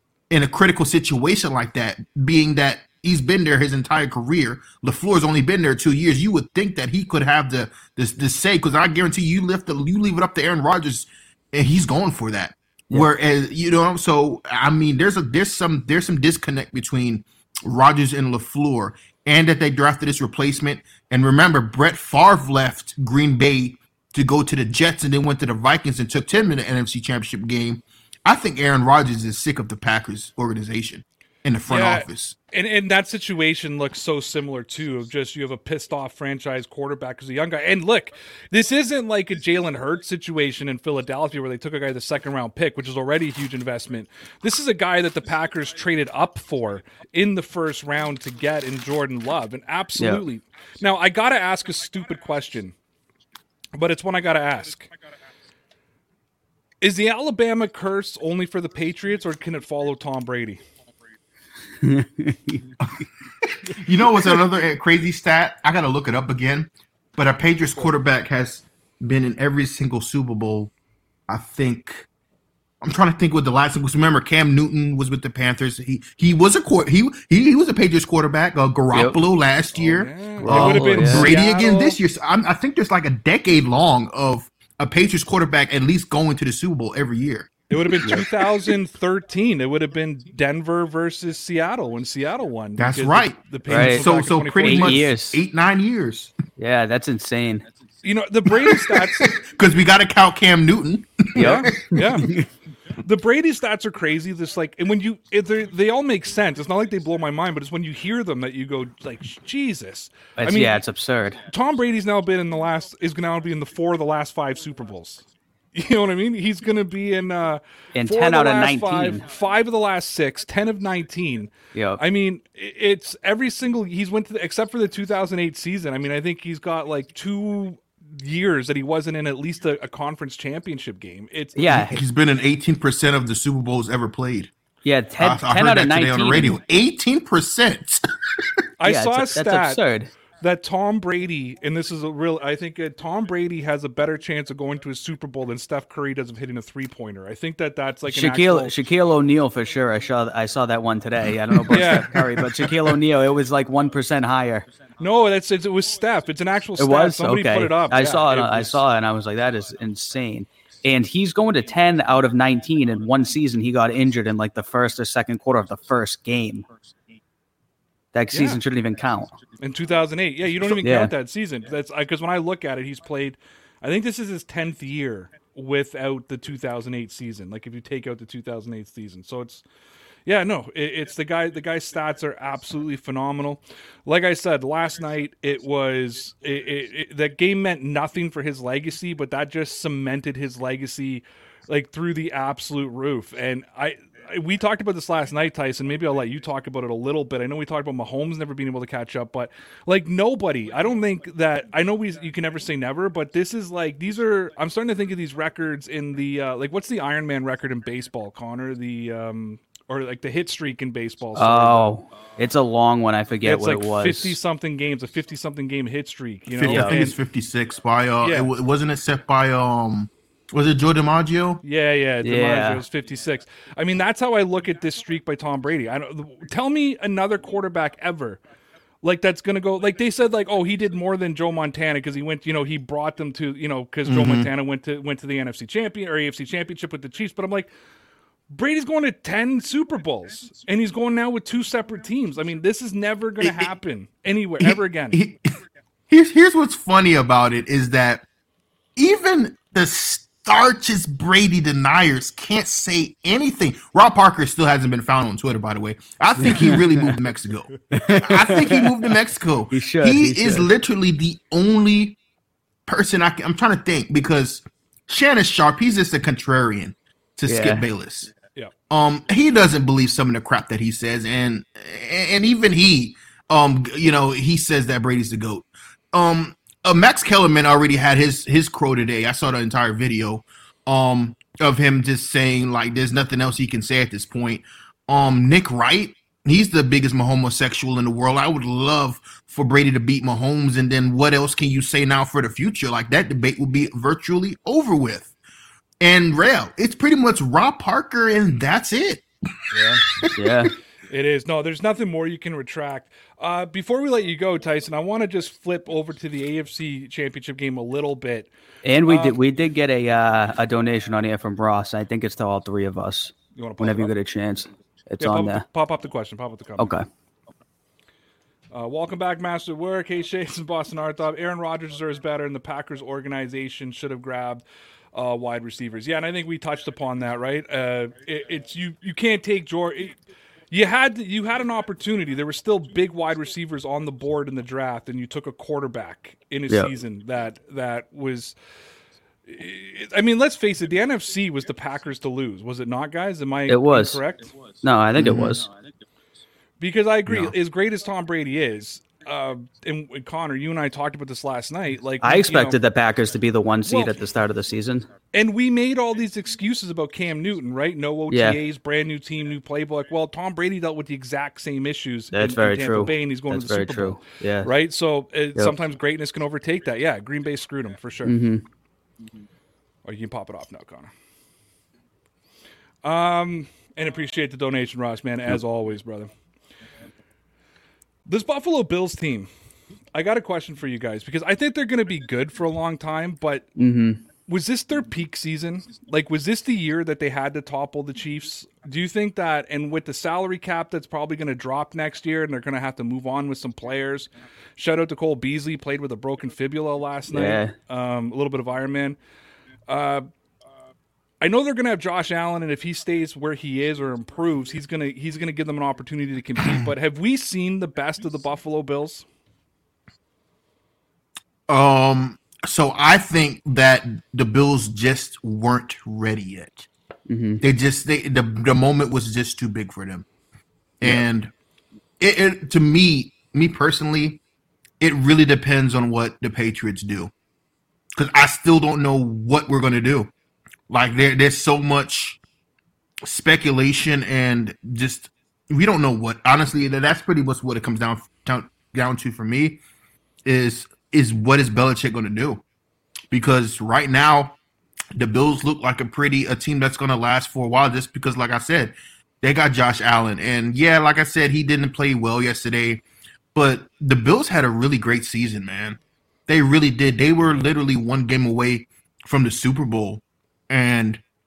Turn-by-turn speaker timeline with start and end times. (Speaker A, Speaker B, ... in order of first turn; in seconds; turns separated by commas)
Speaker A: 0.3-32.4, Speaker B: 31.7-52.7, Speaker C: 50.0-50.2, Speaker B: 53.7-54.9, Speaker B: 56.8-60.6, Speaker C: 61.8-62.6, Speaker A: 63.4-70.7, Speaker A: 71.3-72.1, Speaker A: 72.8-88.7, Speaker C: 78.9-79.2, Speaker B: 79.7-82.0, Speaker C: 80.4-81.3, Speaker B: 87.7-95.1, Speaker A: 92.8-96.3, Speaker C: 93.7-94.1, Speaker C: 94.6-95.4, Speaker C: 96.6-97.6, Speaker B: 98.0-99.3, Speaker A: 98.5-102.0, Speaker B: 101.3-102.3, Speaker C: 101.3-102.4, Speaker B: 103.0-110.8, Speaker C: 110.4-111.4, Speaker B: 111.5-131.8, Speaker C: 117.9-119.2, Speaker C: 121.7-122.0, Speaker C: 131.6-132.0, Speaker A: 131.7-134.5, Speaker C: 134.8-136.6, Speaker A: 135.2-138.6, Speaker B: 138.8-139.8, Speaker C: 138.8-140.1, Speaker B: 140.4-148.7, Speaker C: 148.1-154.7, Speaker B: 151.7-152.8, Speaker B: 155.0-158.8, Speaker C: 156.8-166.7, Speaker C: 168.1-169.4, Speaker B: 168.3-168.6, Speaker B: 169.6-179.6, Speaker C: 170.6-171.1, Speaker B: 180.2-211.9, Speaker C: 211.3-214.4, Speaker B: 213.4-217.2, Speaker A: 216.5-221.6, Speaker C: 216.7-217.0, Speaker B: 218.2-218.5, Speaker B: 221.6-228.4, Speaker C: 222.2-222.8, Speaker B: 229.0-237.7, Speaker A: 234.1-234.5, Speaker B: 238.5-245.2, Speaker A: 243.4-243.7, Speaker A: 244.6-245.6, Speaker A: 246.1-248.2, Speaker A: 248.9-262.2, Speaker C: 256.5-256.8, Speaker C: 257.9-258.9, Speaker C: 259.7-260.7, Speaker A: 262.9-268.3, Speaker C: 267.5-267.9, Speaker A: 268.9-295.3, Speaker A: 296.0-299.2, Speaker B: 299.7-300.1, Speaker A: 300.2-300.5, Speaker C: 300.3-300.7, Speaker B: 301.1-308.5, Speaker C: 308.8-315.6, Speaker B: 309.1-309.4, Speaker B: 313.6-314.1, Speaker B: 315.2-316.9, Speaker C: 316.8-317.1, Speaker B: 318.7-324.6, Speaker B: 325.1-330.2, Speaker B: 330.7-338.5, Speaker B: 339.5-344.5, Speaker C: 343.7-344.2, Speaker C: 344.8-345.7, Speaker A: 345.2-345.6, Speaker B: 346.8-352.8, Speaker C: 347.3-347.5, Speaker C: 352.2-355.1, Speaker B: 353.9-354.2, Speaker B: 355.3-368.4, Speaker C: 358.3-358.6, Speaker C: 362.3-364.7, Speaker C: 368.2-368.6, Speaker B: 370.0-371.1, Speaker B: 373.0-376.3, Speaker B: 378.2-379.5, Speaker B: 380.1-383.7, Speaker C: 383.8-384.2, Speaker B: 384.5-399.2, Speaker C: 397.3-397.7, Speaker B: 399.9-400.2, Speaker B: 401.4-409.2, Speaker A: 411.7-416.9, Speaker C: 417.3-417.6, Speaker A: 417.6-420.2, Speaker A: 421.0-421.5, Speaker A: 422.2-424.4, Speaker A: 425.0-427.3, Speaker A: 428.1-430.3, Speaker A: 430.9-432.4, Speaker A: 433.2-439.8, Speaker A: 440.4-442.6, Speaker A: 443.3-444.6, Speaker A: 445.1-453.0, Speaker A: 453.5-461.2